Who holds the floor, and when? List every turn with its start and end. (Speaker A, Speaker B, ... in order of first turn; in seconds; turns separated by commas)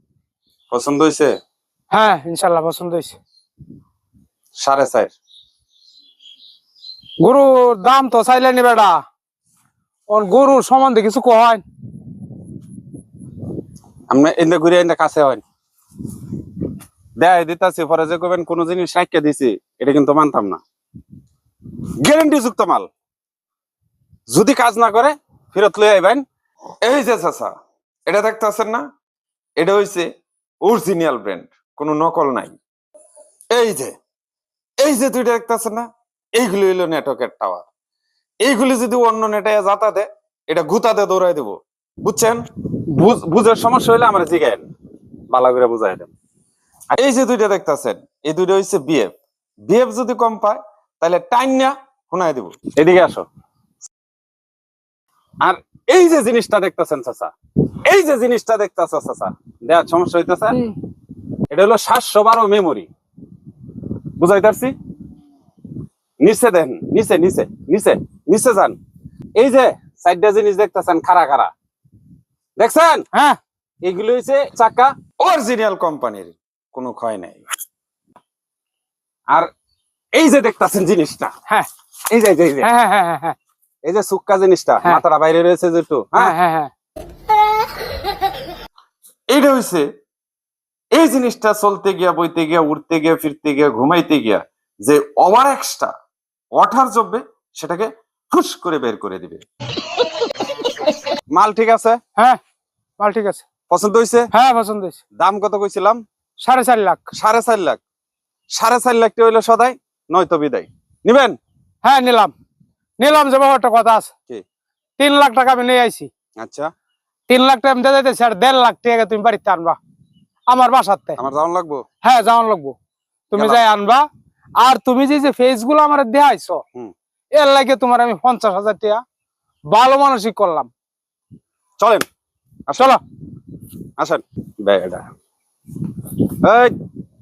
Speaker A: 0.7-1.3, Speaker B: 1.9-3.2, Speaker A: 4.6-5.1, Speaker B: 7.2-8.9, Speaker B: 10.1-11.6, Speaker A: 14.1-15.4, Speaker A: 17.2-20.6, Speaker A: 22.0-22.9, Speaker A: 24.3-26.2, Speaker C: 26.8-27.5, Speaker C: 28.1-28.8, Speaker C: 29.6-30.1, Speaker C: 30.6-32.6, Speaker C: 33.5-33.9, Speaker C: 34.8-37.6, Speaker C: 38.4-42.4, Speaker A: 42.9-44.6, Speaker A: 45.3-46.1, Speaker C: 46.9-49.1, Speaker C: 49.7-52.5, Speaker A: 52.8-53.2, Speaker A: 55.4-57.3, Speaker A: 57.9-60.6, Speaker A: 61.5-62.9, Speaker A: 64.2-64.7, Speaker A: 66.2-68.8, Speaker A: 69.3-71.5, Speaker A: 72.6-73.0, Speaker B: 73.1-73.4, Speaker A: 73.8-75.0, Speaker C: 75.2-77.4, Speaker A: 80.1-81.3, Speaker A: 82.1-82.7, Speaker B: 82.6-83.3, Speaker A: 83.8-86.3, Speaker B: 86.1-86.7, Speaker C: 89.3-89.8, Speaker C: 90.9-95.9, Speaker C: 96.5-99.4, Speaker A: 101.3-102.0, Speaker B: 103.0-103.4, Speaker A: 103.7-104.2, Speaker B: 104.3-105.0, Speaker A: 105.2-106.0, Speaker B: 106.4-107.0, Speaker A: 107.2-107.8, Speaker A: 108.5-111.4, Speaker B: 111.8-112.3, Speaker B: 113.0-114.1, Speaker B: 115.0-116.1, Speaker A: 116.4-116.7, Speaker B: 117.3-119.8, Speaker B: 120.5-121.2, Speaker A: 121.2-121.8, Speaker B: 122.0-122.7, Speaker B: 123.3-124.0, Speaker A: 123.4-123.6, Speaker B: 124.6-126.6, Speaker B: 127.4-129.0, Speaker B: 129.7-130.7, Speaker A: 131.8-132.1, Speaker B: 132.7-133.0, Speaker A: 134.0-135.1, Speaker A: 136.4-136.7